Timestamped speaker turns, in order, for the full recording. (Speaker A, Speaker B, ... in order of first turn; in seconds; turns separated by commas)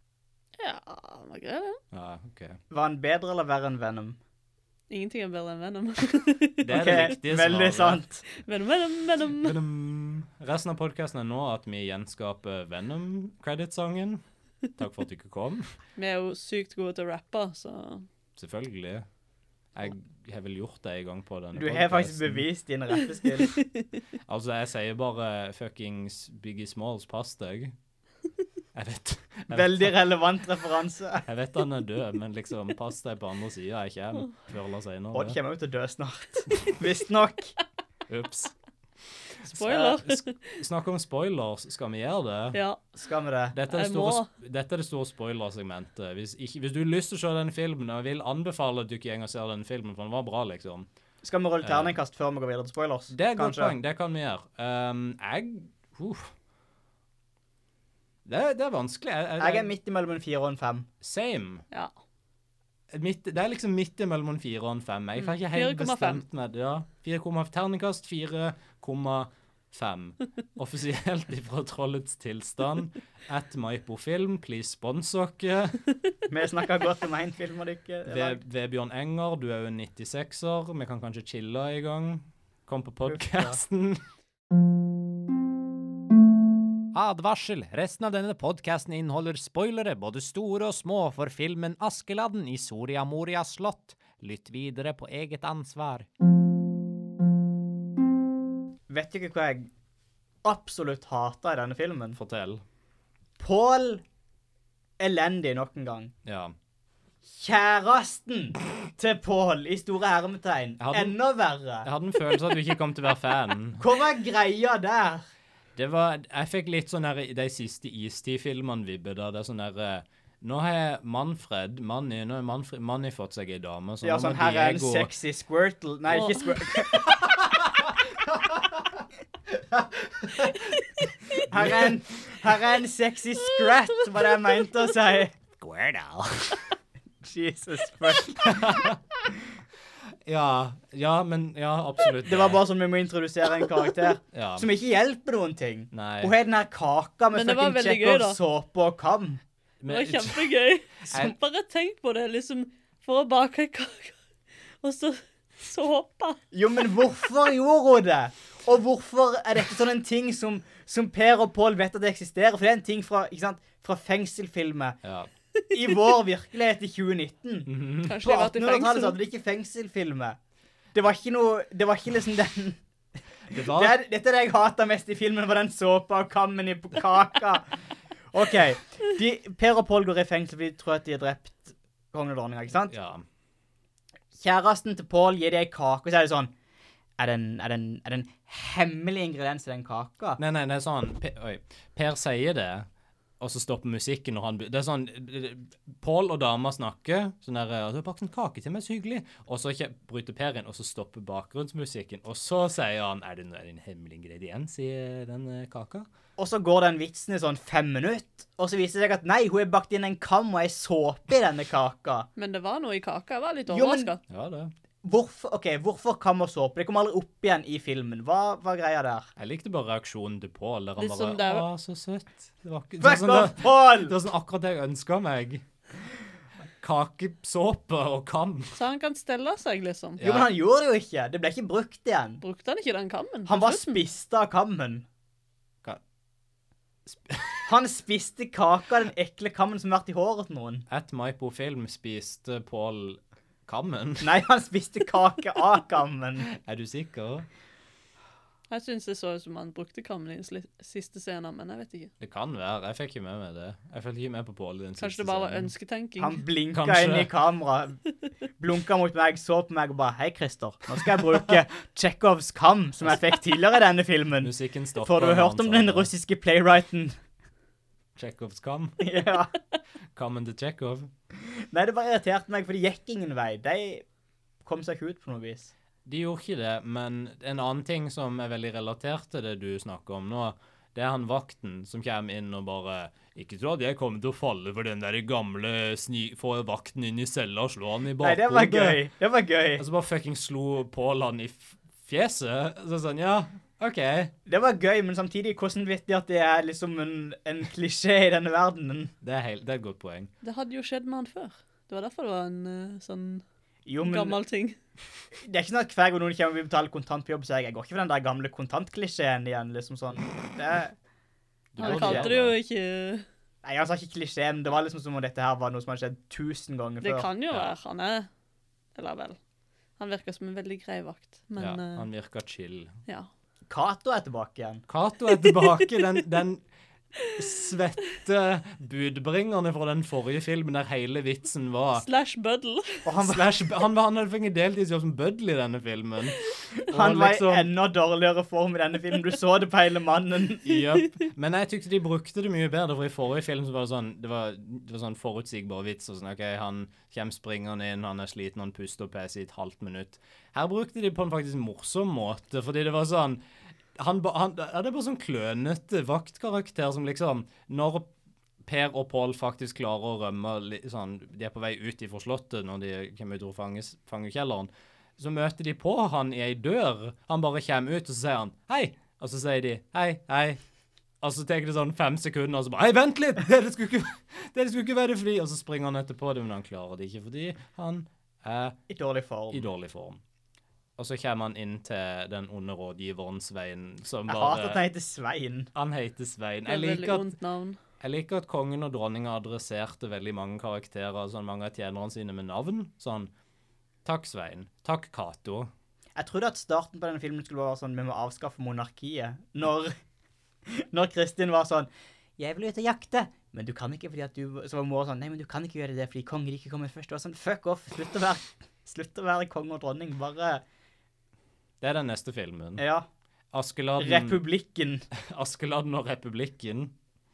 Speaker A: 0.6-1.8, Speaker B: 1.9-2.6, Speaker C: 2.7-4.2, Speaker A: 4.9-7.0, Speaker B: 6.6-8.0, Speaker C: 6.7-8.2, Speaker A: 8.3-9.6, Speaker B: 9.3-14.2, Speaker B: 14.8-15.8, Speaker A: 16.0-18.1, Speaker B: 18.4-19.1, Speaker B: 19.7-22.4, Speaker C: 21.5-23.6, Speaker B: 24.3-27.7, Speaker B: 28.7-29.9, Speaker C: 29.5-31.2, Speaker B: 31.2-35.4, Speaker C: 35.1-37.5, Speaker B: 38.1-38.5, Speaker B: 39.5-42.6, Speaker A: 39.5-40.6, Speaker C: 39.6-39.9, Speaker A: 42.5-43.0, Speaker C: 43.0-43.5, Speaker B: 43.5-50.9, Speaker A: 43.7-44.3, Speaker C: 51.2-53.7, Speaker B: 51.6-51.9, Speaker B: 53.1-56.3, Speaker B: 58.2-59.7, Speaker C: 59.4-60.9, Speaker B: 61.0-61.6, Speaker B: 62.9-75.8, Speaker A: 65.2-66.2, Speaker C: 76.3-78.4, Speaker B: 78.1-84.0, Speaker C: 83.1-83.6, Speaker B: 86.9-96.0, Speaker C: 98.9-99.7, Speaker C: 100.4-102.2, Speaker B: 102.1-102.6, Speaker C: 103.4-104.0, Speaker C: 105.0-106.1, Speaker B: 106.2-106.5, Speaker C: 107.2-111.9, Speaker B: 110.8-111.2, Speaker B: 111.8-113.8, Speaker C: 113.8-115.2, Speaker B: 115.7-125.1, Speaker C: 124.0-127.2, Speaker B: 130.2-130.5, Speaker C: 131.4-135.3, Speaker B: 131.5-132.0, Speaker B: 135.6-136.7, Speaker C: 137.2-138.8, Speaker B: 138.4-139.0, Speaker B: 140.2-142.6, Speaker C: 142.2-149.4, Speaker B: 144.3-144.7, Speaker B: 145.9-146.3, Speaker A: 147.3-148.4, Speaker B: 149.8-150.5, Speaker A: 149.9-154.2, Speaker A: 154.8-156.4, Speaker C: 156.5-165.0, Speaker B: 165.0-165.3, Speaker C: 165.7-170.4, Speaker B: 167.7-168.2, Speaker A: 168.1-169.2, Speaker C: 170.9-172.8, Speaker B: 173.5-173.9, Speaker C: 173.5-177.8, Speaker C: 178.3-182.9, Speaker B: 182.9-183.2, Speaker C: 184.3-186.5, Speaker C: 187.2-190.4, Speaker B: 190.4-192.9, Speaker B: 193.4-206.1, Speaker C: 206.4-212.3, Speaker A: 212.3-214.2, Speaker C: 213.7-214.1, Speaker B: 214.3-214.7, Speaker C: 215.0-219.3, Speaker B: 219.4-225.6, Speaker A: 221.0-221.7, Speaker C: 223.0-224.1, Speaker B: 226.8-228.8, Speaker A: 228.8-230.2, Speaker B: 230.2-230.5, Speaker C: 230.2-232.4, Speaker A: 232.4-234.0, Speaker C: 233.5-235.0, Speaker B: 237.1-237.6, Speaker C: 237.7-240.8, Speaker B: 240.9-244.4, Speaker C: 244.2-246.5, Speaker B: 246.5-247.5, Speaker A: 248.7-252.1, Speaker B: 252.2-255.7, Speaker A: 255.0-256.4, Speaker C: 256.2-258.0, Speaker B: 256.7-257.3, Speaker C: 258.6-267.2, Speaker B: 264.4-266.1, Speaker B: 268.1-269.0, Speaker C: 269.0-269.5, Speaker B: 270.1-271.1, Speaker C: 271.4-274.0, Speaker C: 274.6-275.7, Speaker B: 276.1-289.0, Speaker C: 288.2-289.8, Speaker B: 289.8-294.3, Speaker C: 294.5-299.1, Speaker B: 299.2-300.3, Speaker A: 300.4-303.4, Speaker C: 303.9-304.4, Speaker A: 304.0-304.8, Speaker C: 305.4-310.9, Speaker B: 311.7-312.5, Speaker A: 311.8-313.2, Speaker C: 311.8-312.3, Speaker C: 313.6-317.3, Speaker A: 317.0-318.3, Speaker A: 318.9-319.4, Speaker A: 320.0-322.1, Speaker B: 321.6-322.9, Speaker C: 323.7-324.8, Speaker B: 324.9-326.6, Speaker A: 325.4-326.0, Speaker B: 327.3-332.1, Speaker A: 331.9-333.1, Speaker C: 333.0-333.5, Speaker B: 333.2-337.7, Speaker C: 336.9-340.7, Speaker B: 340.6-353.4, Speaker B: 353.9-358.1, Speaker B: 358.6-370.6, Speaker B: 371.2-378.8, Speaker C: 378.9-379.7, Speaker B: 379.5-380.2, Speaker B: 381.0-384.8, Speaker C: 384.3-385.7, Speaker B: 385.7-387.3, Speaker A: 386.6-387.8, Speaker B: 388.0-393.3, Speaker B: 394.0-395.7, Speaker C: 396.1-399.9, Speaker C: 400.7-410.6, Speaker B: 411.8-412.8, Speaker C: 412.8-413.1, Speaker B: 413.5-414.4, Speaker C: 414.0-415.1, Speaker B: 415.2-416.9